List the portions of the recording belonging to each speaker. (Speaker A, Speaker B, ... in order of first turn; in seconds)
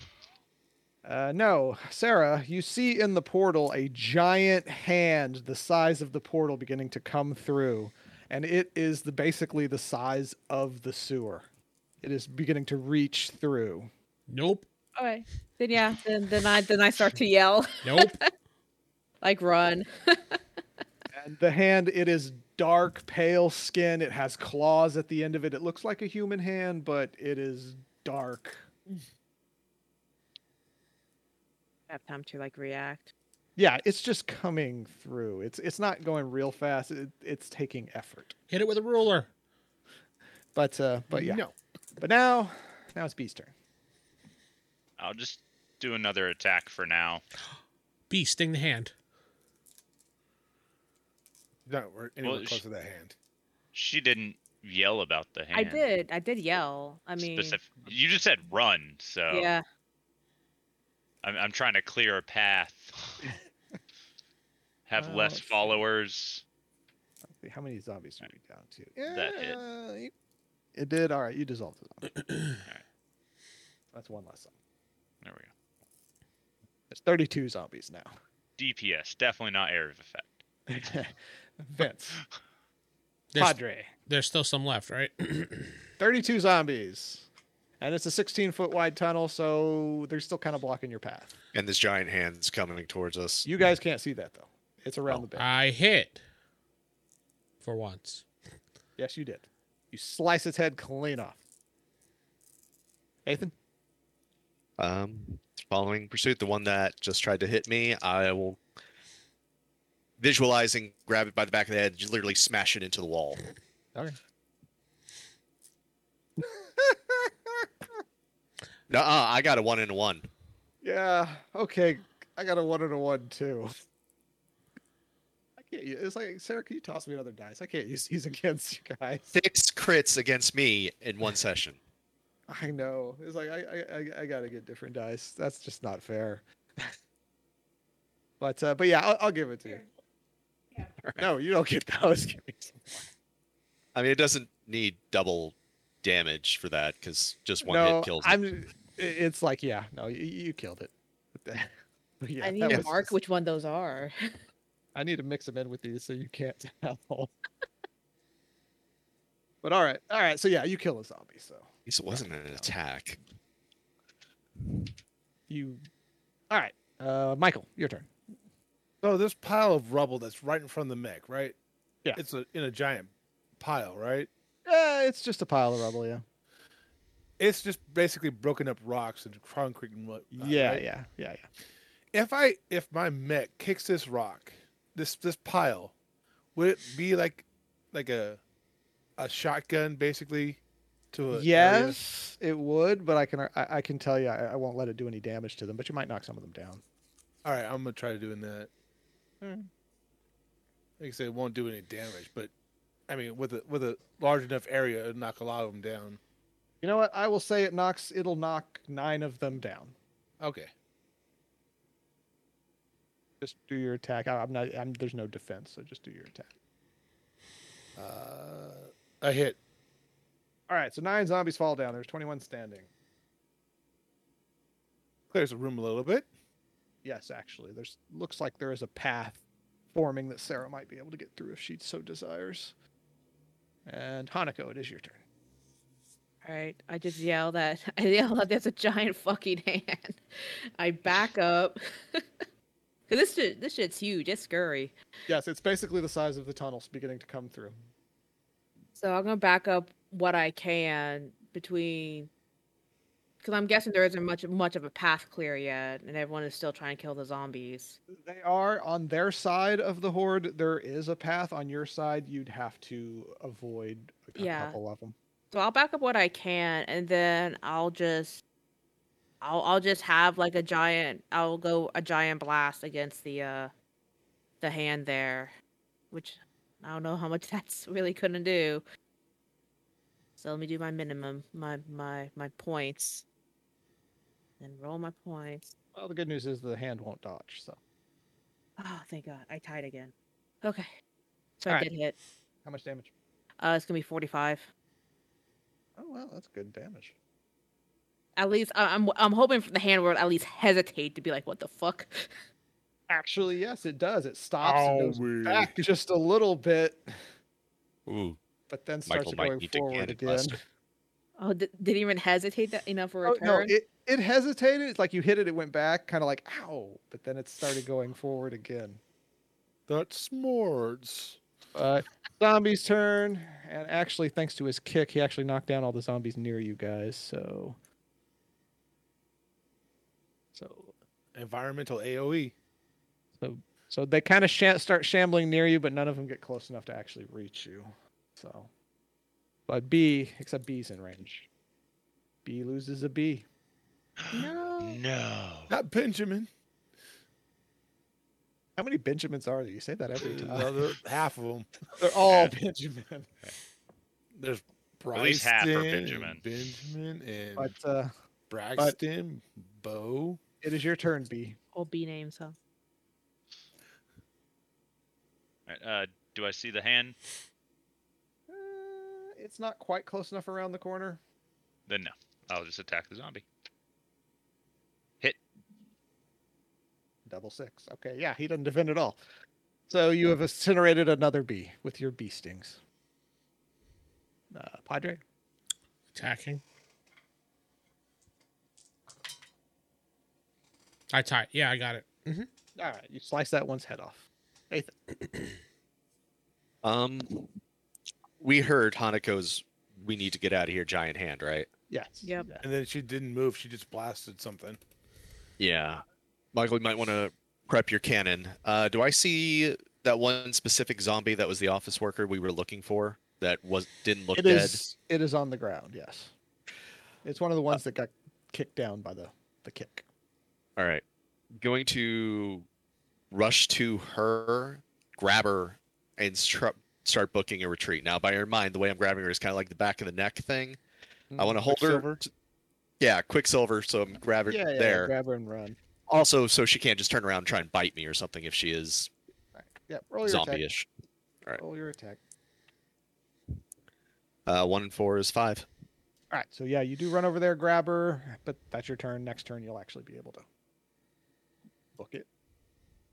Speaker A: 1.0-11.5, 12.0-13.9, 21.1-28.7, 33.6-38.4, 40.5-41.4, 42.0-43.5, 65.0-65.8, 67.3-70.1, 70.7-72.1, 73.9-74.5, 76.9-78.1, 80.7-82.2, 83.4-83.9, 86.0-87.3, 87.8-91.3, 93.5-95.5, 99.0-101.4, 103.2-103.5, 116.4-118.0, 120.8-123.7, 125.6-129.3, 132.5-136.9, 138.4-139.9, 141.2-143.1, 147.6-153.1, 154.9-157.3, 159.6-162.7, 165.5-165.8, 166.5-168.1, 174.7-176.2, 180.3-181.5, 191.3-196.8, 199.4-199.7, 206.8-209.9, 213.4-216.5, 220.7-222.9, 227.0-232.7, 233.9-235.2, 245.3-247.8, 258.1-265.1, 285.9-287.8, 292.6-293.1, 296.0-297.1, 303.1-307.2, 308.7-310.6, 313.2-319.0, 321.7-327.8, 330.5-330.9, 333.4-338.7, 339.7-341.5, 342.4-343.4, 344.3-344.7, 348.8-350.9, 352.0-353.3, 357.6-358.1, 360.6-361.6, 368.5-371.2, 377.2-379.2, 379.9-382.8, 384.5-385.2, 392.8-394.9, 401.9-402.6, 414.3-416.3, 417.2-420.0, 431.3-431.6, 434.5-435.8, 439.5-440.6, 441.6-442.2, 446.3-450.4, 452.0-452.3
Speaker B: 14.3-14.7, 17.8-18.2, 38.5-39.3, 48.1-48.9, 84.1-85.8, 95.3-96.2, 97.6-98.2, 386.1-386.6, 391.1-392.5
Speaker C: 15.0-18.2, 19.2-20.4, 31.9-33.1, 55.5-57.6, 59.3-59.6, 152.4-154.1, 236.4-242.2, 243.1-244.9, 248.9-252.3, 253.4-258.0, 264.4-264.8, 265.5-268.4, 269.4-273.7, 274.6-275.5, 276.1-278.8, 280.4-283.2, 284.6-285.7, 288.8-290.9, 291.6-292.1, 293.6-294.7, 298.4-302.3, 311.4-313.7, 361.7-362.6, 402.2-402.5
Speaker D: 41.1-41.5, 51.7-53.1, 169.0-171.6, 172.1-174.3, 177.4-180.8, 182.1-185.9, 186.5-188.4, 189.2-190.6, 191.1-192.0, 197.4-198.7, 201.0-202.5, 203.1-206.2, 210.4-210.7, 217.9-219.6, 225.3-226.3, 304.6-305.8, 319.9-321.4, 331.3-332.5, 345.7-346.5, 350.2-351.7, 354.3-357.7, 358.5-360.4, 402.6-404.8, 431.6-432.1
Speaker E: 45.0-47.2, 52.2-52.6, 53.7-55.9, 57.2-59.5, 61.2-63.3, 64.9-66.4, 69.1-69.6, 75.2-75.5, 78.6-80.4, 344.2-345.7, 352.3-352.5, 355.1-356.4, 365.7-367.1, 371.9-373.4
Speaker F: 91.5-93.5, 104.8-108.6, 110.2-113.4, 118.9-120.3, 129.3-131.8, 141.0-141.3, 143.9-148.4, 161.8-163.2, 308.1-308.4, 309.1-310.6, 396.8-397.5, 398.4-401.7, 405.6-406.0, 406.5-414.8, 420.8-421.0, 421.6-422.7, 423.3-430.8, 431.4-432.3, 433.0-435.1, 436.1-439.1, 440.2-440.9, 444.4-445.7